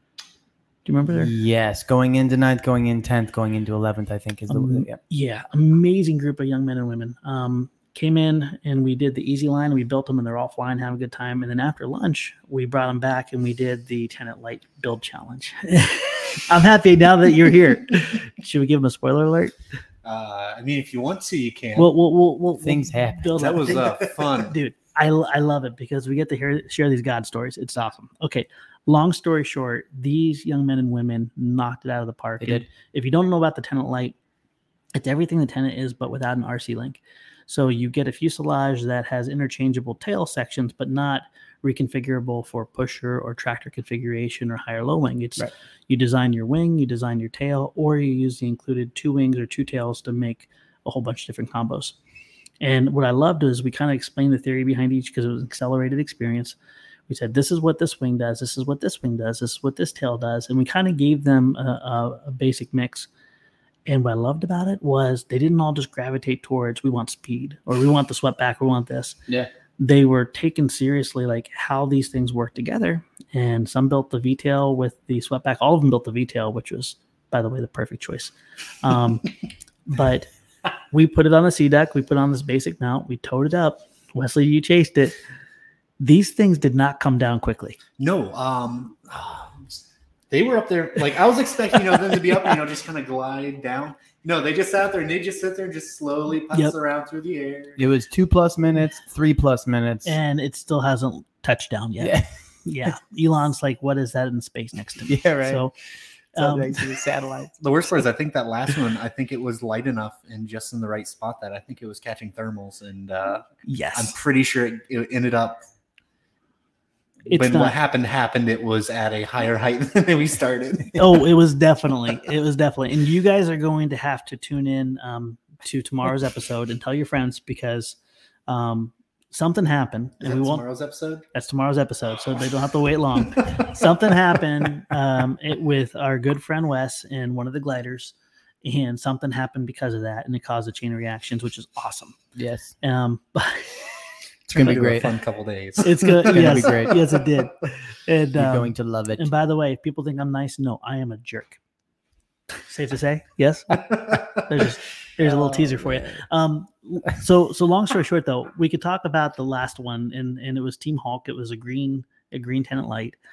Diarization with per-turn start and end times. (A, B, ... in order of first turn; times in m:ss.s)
0:00.8-0:01.3 A
0:01.1-0:05.0 B
0:04.5-0:19.6 A
0:20.0-0:21.9 C
0:21.8-0:34.2 A
0:22.6-0:23.4 B
0:23.4-0:24.6 C
0:32.4-0:32.7 B
0:34.9-0:52.0 A
0:52.6-0:56.6 A
0:57.1-1:03.1 A
1:03.9-1:09.2 A
1:09.8-1:19.3 A
1:19.9-1:20.3 A
1:20.9-1:25.2 A
1:26.0-1:27.8 A
1:28.0-1:37.8 C
1:37.8-1:40.2 B
1:40.0-1:45.7 A
1:42.0-1:42.3 B
1:45.1-1:45.7 B
1:46.4-1:46.9 A
1:46.4-1:47.6 B
1:47.6-1:55.6 C
1:53.6-1:54.2 A
1:57.3-1:57.8 A
1:57.3-2:01.2 C
2:01.0-2:10.6 A
2:10.2-2:11.2 C
2:11.3-2:22.2 A
2:22.4-2:22.7 B
2:22.8-2:23.9 A
2:24.5-2:27.2 C
2:24.6-2:25.2 B
2:25.8-2:31.6 A
2:26.2-2:27.0 B
2:28.4-2:29.3 B
2:32.6-2:43.2 A
2:33.8-2:34.6 C
2:35.3-2:36.2 B